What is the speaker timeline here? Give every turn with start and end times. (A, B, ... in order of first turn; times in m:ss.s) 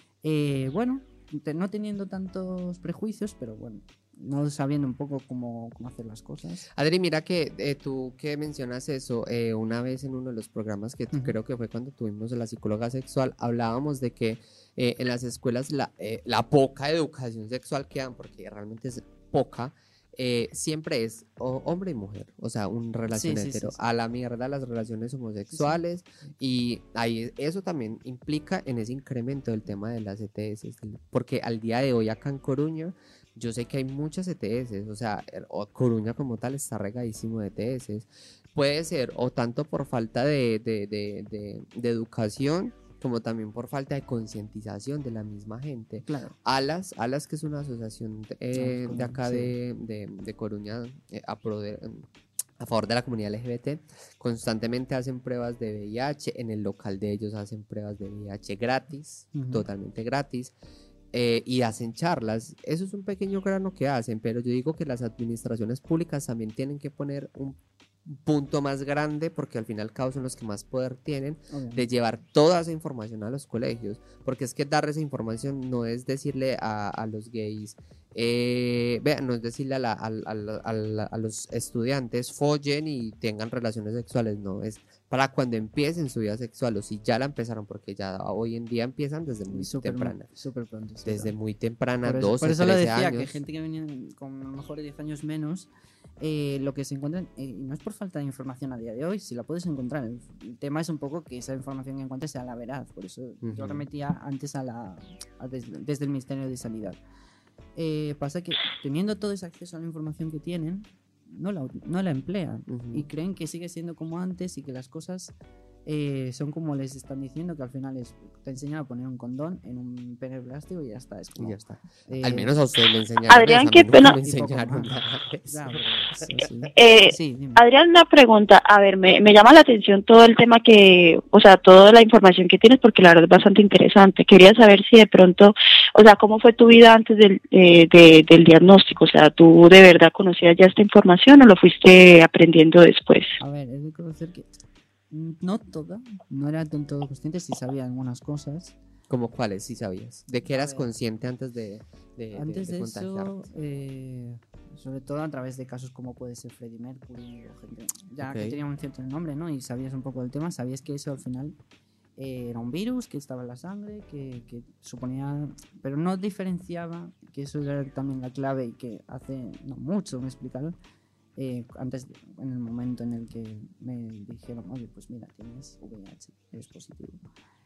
0:00.2-0:06.6 A
0:06.7-0:52.1 B
0:23.1-0:23.8 A
0:25.5-0:25.8 A
0:46.0-0:46.3 A
0:48.5-0:49.5 A
0:52.6-1:00.5 B
0:59.3-0:59.7 A
1:01.1-1:30.3 B
1:11.5-1:11.8 A
1:29.5-1:31.3 A
1:31.0-1:33.3 B
1:32.0-1:35.7 A
1:36.2-1:47.0 A
1:43.4-1:43.8 B
1:47.8-1:55.3 A
1:52.7-1:53.1 B
1:55.8-2:02.5 A
2:01.4-2:06.6 B
2:03.3-2:04.2 C
2:04.2-2:07.6 A
2:06.8-2:23.4 C
2:23.4-2:24.5 A
2:25.1-2:28.8 A
2:29.1-2:33.4 B
2:30.5-2:30.9 A
2:32.3-2:41.6 A
2:38.2-2:38.6 B
2:42.2-2:50.8 A
2:51.4-2:57.2 A